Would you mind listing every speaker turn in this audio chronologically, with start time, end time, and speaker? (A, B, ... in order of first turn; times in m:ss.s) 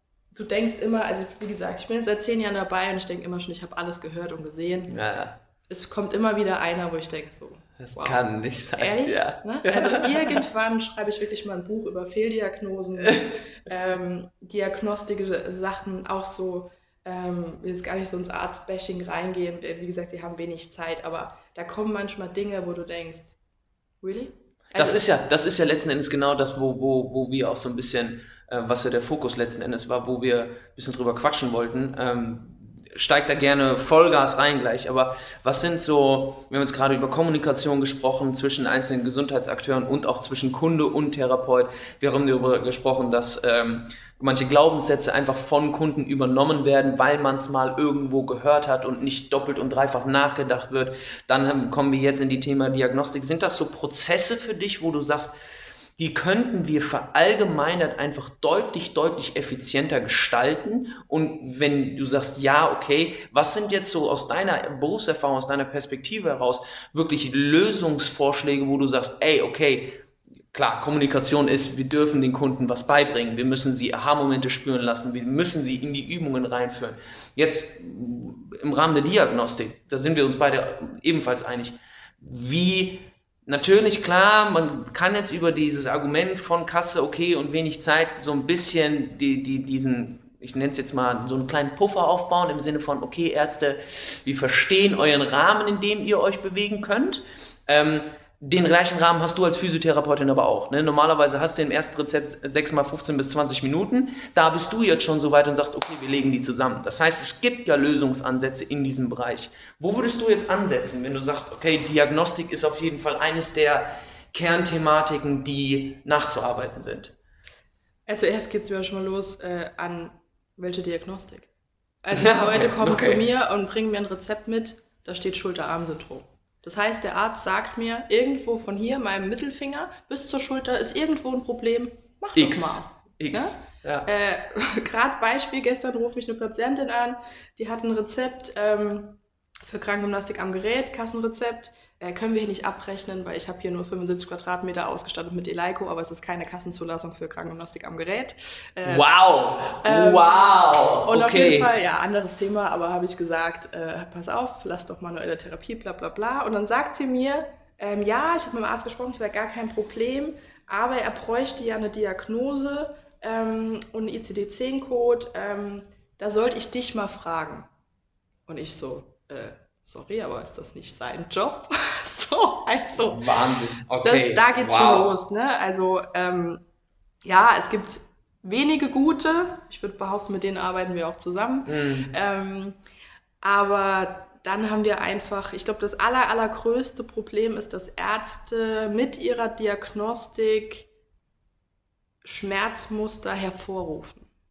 0:00.3-0:05.0 A
0:04.9-0:05.4 B
0:05.7-0:23.4 A
0:07.8-0:10.4 B
0:13.0-0:13.3 B
0:24.0-0:25.0 A
0:24.8-0:55.4 B
0:56.0-1:10.0 B
1:10.5-1:57.2 B
1:58.1-2:01.5 A
2:02.0-2:29.1 A
2:02.1-2:03.2 B
2:12.4-2:14.1 B
2:28.8-2:31.7 B
2:29.8-2:47.7 A
2:48.5-2:56.6 A
2:53.0-2:55.2 B
2:57.2-3:02.8 A
3:01.7-3:02.1 B
3:03.4-3:10.9 A
3:12.2-3:14.3 A